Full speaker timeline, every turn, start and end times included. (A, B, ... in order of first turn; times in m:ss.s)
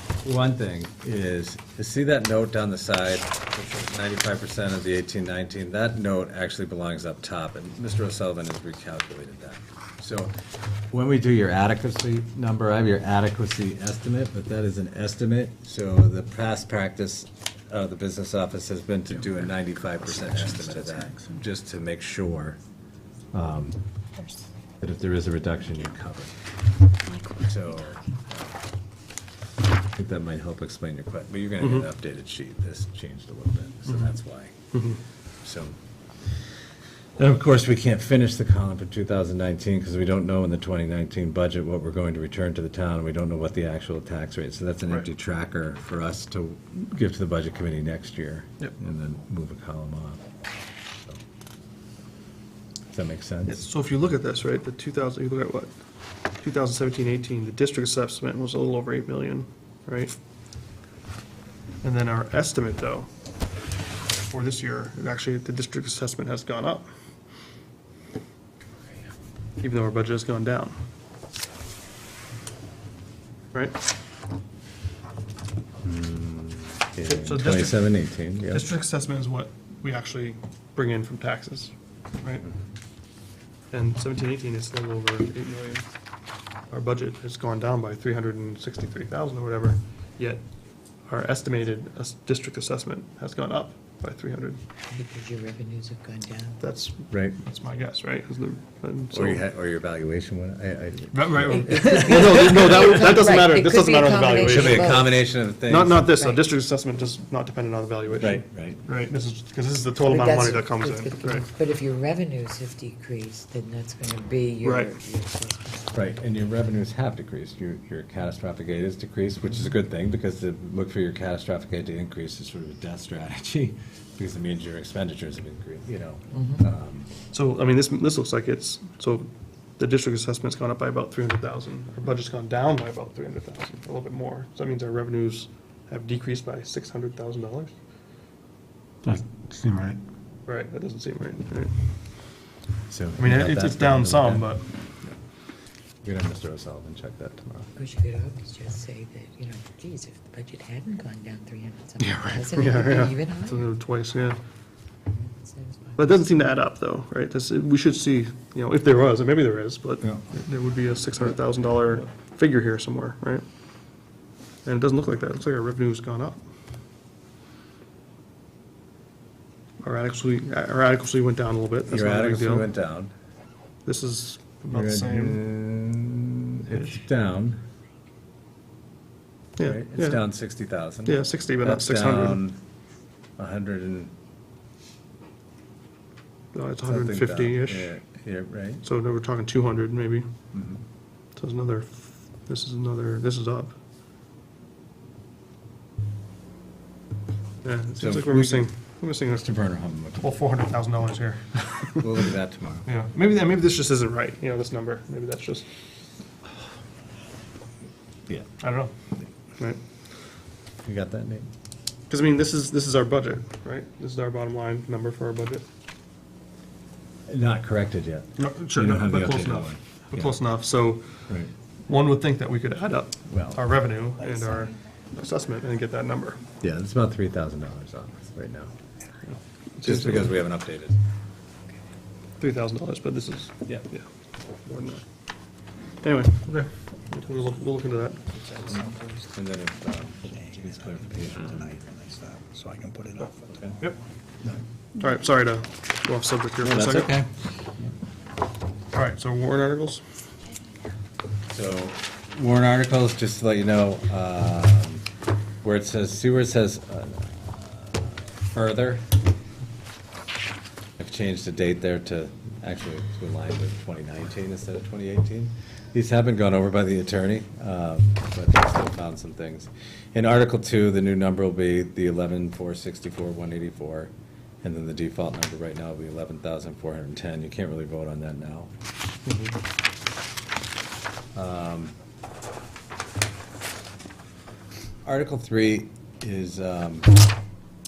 0:00.2-0:10.3 A
0:10.9-0:22.6 A
0:20.1-0:21.3 B
0:23.3-0:23.8 A
0:24.8-0:26.3 A
0:27.0-0:28.0 C
0:27.4-0:28.5 A
0:30.0-0:34.7 A
0:31.6-0:31.9 D
0:34.7-0:35.0 D
0:35.4-0:35.7 A
0:37.2-0:50.2 A
0:52.9-0:53.6 A
0:53.4-0:55.7 D
0:56.4-1:00.1 D
1:01.8-1:03.1 D
1:04.3-1:06.8 D
1:09.6-1:10.8 D
1:15.8-1:18.7 A
1:17.0-1:17.8 D
1:18.5-1:22.5 D
1:23.7-1:25.9 D
1:26.7-1:30.4 D
1:31.0-1:34.6 D
1:34.9-1:36.6 C
1:36.6-1:39.4 D
1:37.1-1:37.4 A
1:39.1-1:42.5 A
1:41.1-1:45.1 D
1:41.5-1:45.1 C
1:44.4-1:46.0 A
1:45.7-1:51.4 D
1:45.9-1:46.5 C
1:48.2-1:48.8 A
1:50.0-1:56.0 C
1:54.6-1:55.0 D
1:55.9-2:07.1 A
2:06.3-2:06.6 C
2:07.3-2:17.7 D
2:19.0-2:20.0 B
2:20.4-2:21.7 D
2:22.9-2:24.5 A
2:23.2-2:25.1 D
2:26.0-2:27.7 A
2:27.8-2:33.7 C
2:32.0-2:34.4 D
2:35.1-2:36.2 C
2:36.0-2:43.4 D
2:44.6-2:46.4 D
2:49.8-2:52.7 D
2:51.9-2:53.1 A
2:53.8-2:55.4 D
2:54.7-2:57.6 A
2:59.6-3:00.2 D
2:59.6-3:02.6 A
3:01.0-3:02.4 D
3:03.4-3:04.1 A
3:06.5-3:07.9 D
3:06.8-3:08.8 A
3:08.8-3:10.3 D
3:10.5-3:10.8 A
3:11.4-3:13.7 D
3:17.6-3:19.5 D
3:18.0-3:18.7 A
3:19.3-3:20.3 A
3:20.2-3:22.2 D
3:22.0-3:22.9 A
3:22.8-3:25.7 D
3:28.3-3:28.6 A
3:28.6-3:28.9 D
3:30.8-3:31.5 A
3:32.1-3:35.6 D
3:37.3-3:40.4 A
3:38.4-3:41.3 D
3:41.9-3:46.4 D
3:43.3-3:43.6 A
3:46.6-3:48.7 A
3:49.2-3:50.4 D
3:49.8-3:51.0 A
3:52.4-3:54.0 D
3:54.6-3:55.0 D
3:56.0-3:59.1 D
3:59.3-4:01.8 A
4:01.4-4:03.7 B
4:03.5-4:03.8 A
4:05.0-4:07.1 D
4:06.6-4:07.3 A
4:08.9-4:10.0 D
4:11.5-4:15.0 A
4:15.6-4:19.1 A
4:21.0-4:34.1 A
4:34.6-4:38.7 A
4:41.3-4:41.9 A
4:45.0-4:47.3 A